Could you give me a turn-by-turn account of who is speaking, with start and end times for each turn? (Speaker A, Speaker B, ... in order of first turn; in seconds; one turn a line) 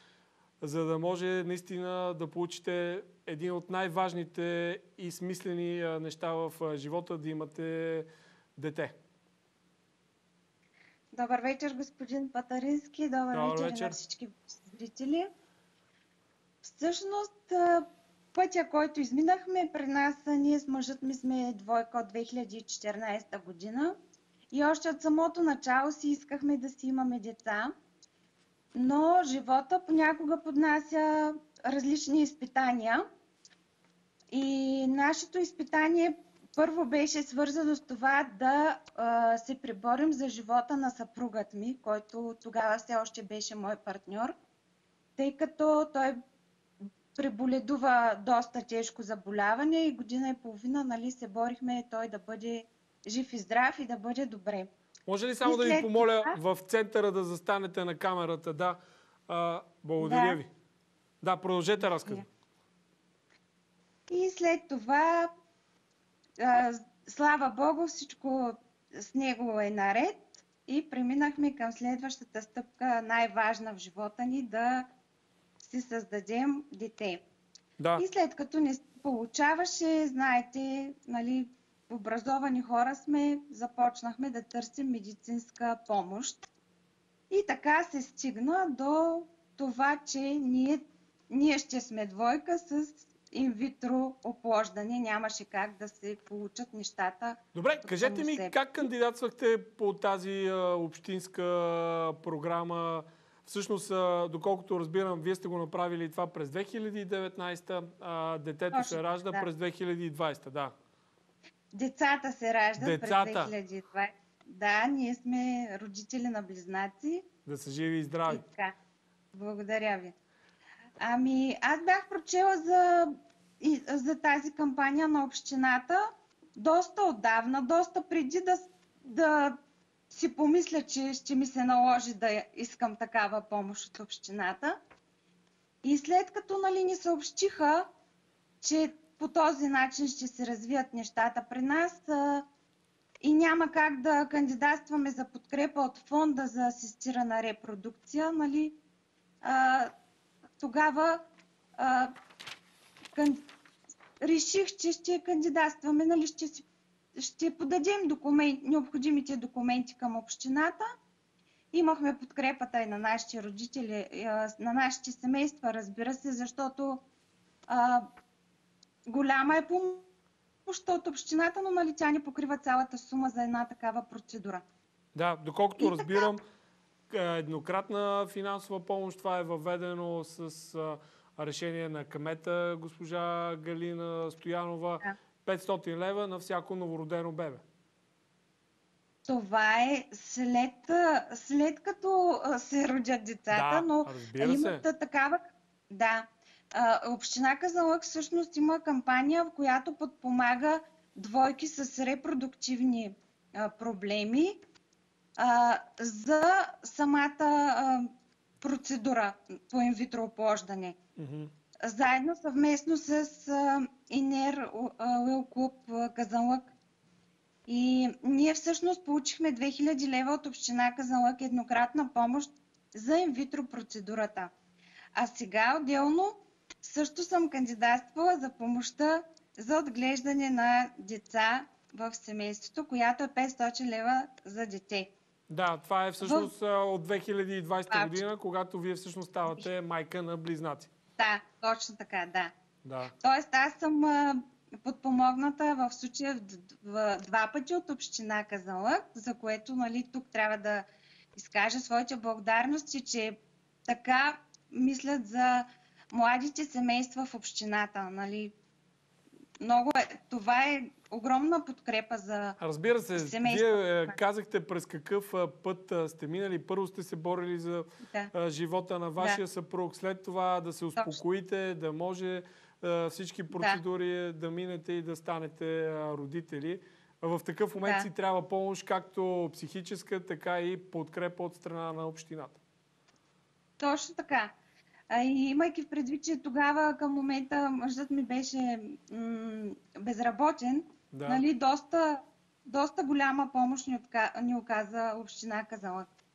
Speaker A: 0.6-8.9
Speaker B: 11.1-15.3
Speaker A: 13.3-14.0
Speaker B: 16.6-24.0
Speaker B: 24.5-27.7
Speaker B: 28.8-33.1
Speaker B: 34.3-44.4
Speaker B: 45.2-46.2
Speaker B: 47.1-54.7
Speaker A: 55.1-60.5
Speaker B: 55.4-56.4
Speaker B: 60.0-60.4
Speaker A: 61.2-62.2
Speaker B: 61.8-62.2
Speaker B: 64.1-65.3
Speaker B: 66.4-74.9
Speaker B: 75.6-77.2
Speaker A: 77.8-78.0
Speaker B: 78.0-86.5
Speaker B: 87.3-98.6
Speaker A: 97.5-110.7
Speaker B: 108.7-109.5
Speaker B: 111.7-117.2
Speaker A: 112.8-113.5
Speaker A: 117.5-118.4
Speaker B: 118.3-118.7
Speaker B: 119.3-120.1
Speaker B: 121.0-129.6
Speaker B: 130.1-134.8
Speaker B: 135.8-137.9
Speaker B: 138.6-142.5
Speaker B: 143.2-148.8
Speaker B: 149.4-149.9
Speaker B: 150.6-151.2
Speaker B: 151.8-152.1
Speaker B: 153.2-153.5
Speaker B: 154.2-160.9
Speaker B: 161.7-167.0
Speaker B: 167.7-168.1
Speaker B: 169.1-170.1
Speaker B: 170.7-174.6
Speaker A: 175.2-176.4
Speaker B: 175.8-176.2
Speaker A: 177.1-187.6
Speaker B: 189.3-204.6
Speaker A: 193.5-194.8
Speaker B: 205.4-208.1
Speaker B: 208.6-211.0
Speaker A: 211.2-211.5
Speaker B: 211.8-216.7
Speaker B: 217.7-224.5
Speaker B: 225.2-235.1
Speaker A: 235.5-240.9
Speaker B: 236.2-236.5
Speaker B: 237.9-238.2
Speaker B: 241.2-242.5
Speaker A: 242.8-243.1
Speaker B: 243.2-258.6
Speaker B: 259.6-262.6
Speaker A: 262.6-282.6
Speaker B: 263.2-264.2
Speaker B: 268.1-268.3
Speaker B: 273.5-273.8
Speaker B: 277.8-278.1
Speaker B: 283.8-284.5
Speaker B: 285.1-296.1
Speaker A: 291.1-291.4